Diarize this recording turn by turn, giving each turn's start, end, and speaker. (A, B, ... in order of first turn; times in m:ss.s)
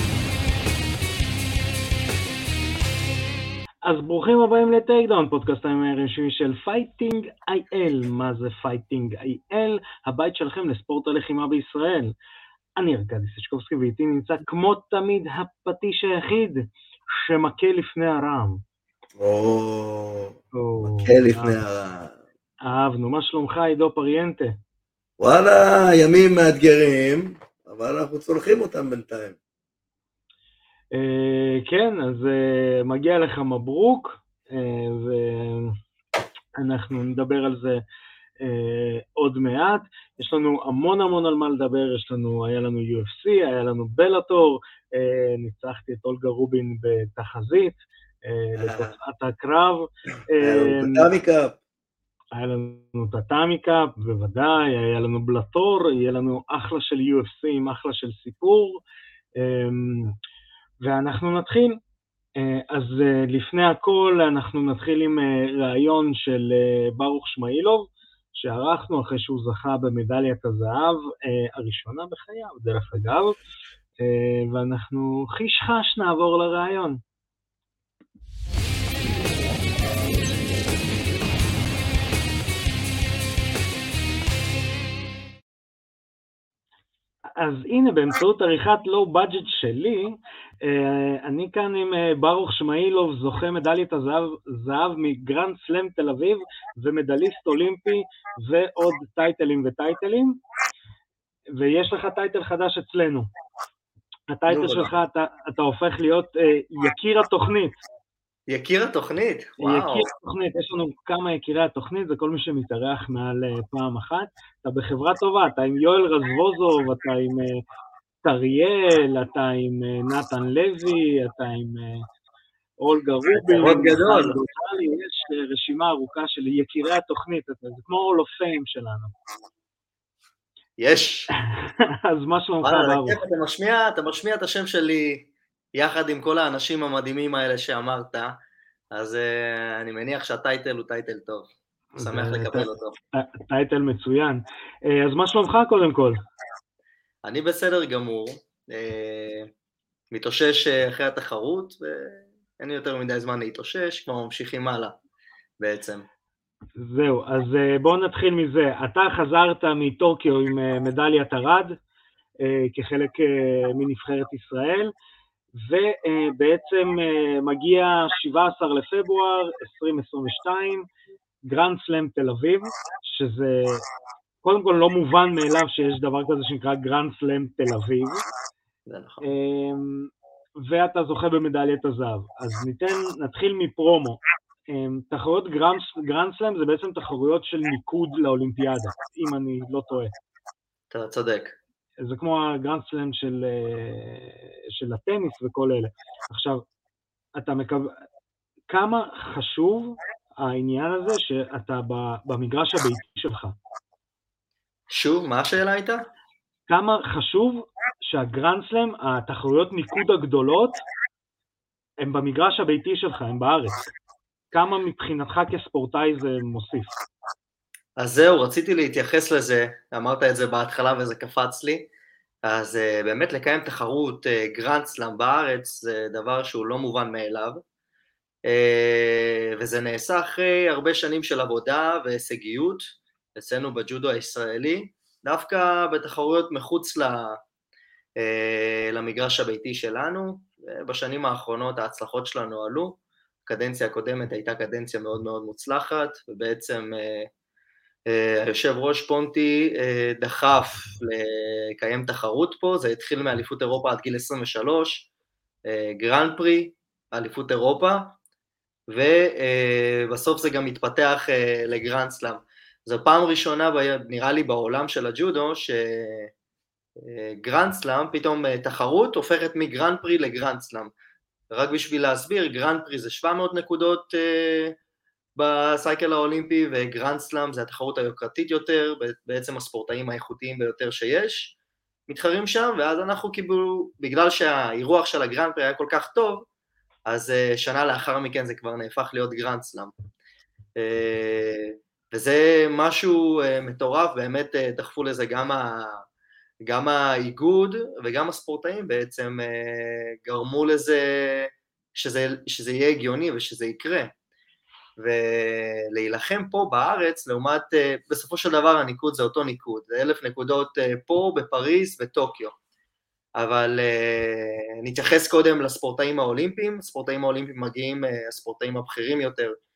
0:03.8-0:12.1 A
0:12.8-0:16.6 A
0:17.2-0:18.6 A
0:19.2-0:22.2 B
0:20.6-0:21.6 A
0:22.6-0:24.6 A
0:25.2-0:29.4 B
0:30.9-0:35.8 A
0:36.6-0:37.8 A
0:38.4-0:51.1 A
0:48.6-0:48.9 B
0:50.4-0:51.6 B
0:52.4-0:58.8 A
0:59.4-1:00.1 A
1:00.8-1:01.8 A
1:02.4-1:13.4 A
1:14.0-1:17.0 A
1:27.4-1:40.4 A
1:41.6-1:43.3 A
1:44.3-1:47.8 A
1:44.5-1:44.9 B
1:48.5-1:50.1 C
1:49.6-1:57.6 A
1:58.2-2:02.0 A
2:02.8-2:09.2 A
2:03.5-2:04.4 C
2:10.8-2:11.3 C
2:11.5-2:13.2 A
2:12.6-2:18.4 C
2:18.9-2:23.0 C
2:22.0-2:26.2 A
2:27.2-2:29.5 C
2:30.1-2:35.0 C
2:35.6-2:36.0 C
2:36.8-2:41.8 A
2:42.4-2:44.9 A
2:45.7-2:50.8 A
2:51.5-2:53.8 A
2:54.4-2:58.2 A
2:58.9-2:59.2 C
2:59.2-3:10.1 A
3:10.9-3:11.6 C
3:12.0-3:16.6 A
3:17.4-3:18.0 A
3:18.7-3:23.6 A
3:24.9-3:26.0 C
3:26.7-3:30.8 A
3:32.0-3:33.8 A
3:34.5-3:36.9 A
3:38.0-3:41.9 C
3:42.4-3:47.6 C
3:48.5-3:57.4 C
3:58.2-4:07.3 C
4:08.1-4:15.1 C
4:15.7-4:18.2 C
4:18.9-4:26.3 C
4:27.0-4:30.9 C
4:31.5-4:34.8 C
4:35.4-4:41.6 C
4:42.1-4:46.5 C
4:47.1-4:49.9 C
4:50.8-4:56.0 C
4:56.7-5:04.1 C
5:05.0-5:12.5 C
5:13.4-5:19.6 C